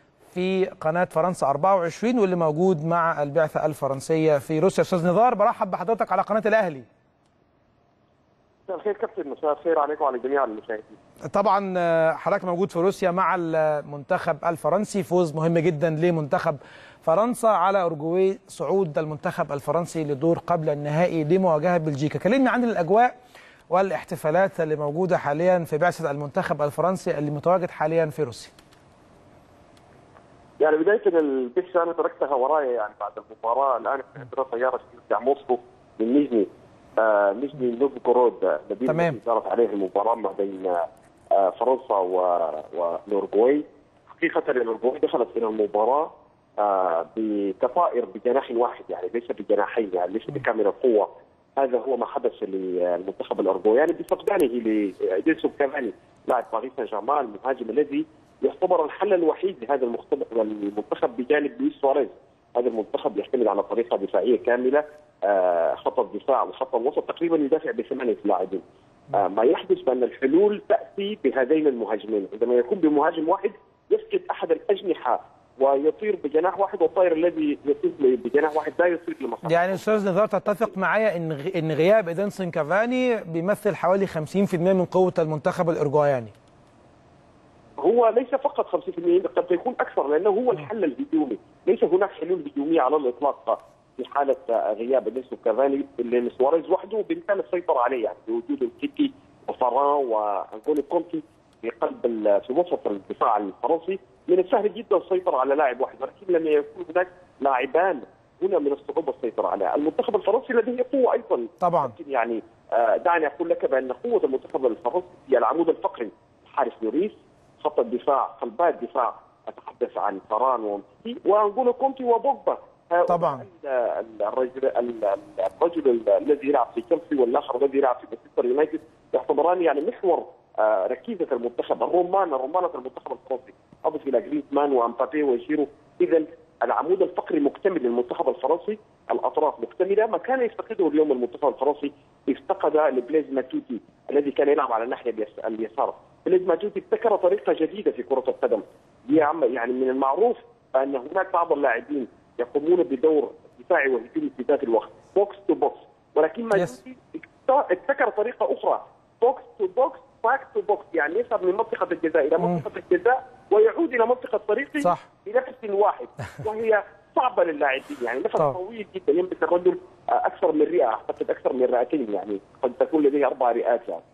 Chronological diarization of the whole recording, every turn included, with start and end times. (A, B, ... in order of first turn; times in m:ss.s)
0:00.3-0:06.9 A
0:08.7-0:11.0 B
0:11.3-0:23.1 A
0:23.7-0:28.5 A
0:30.6-1:20.0 B
0:38.9-0:39.2 A
1:19.5-1:26.3 A
1:27.8-2:54.0 B
1:51.6-1:52.0 A
2:03.1-2:03.5 A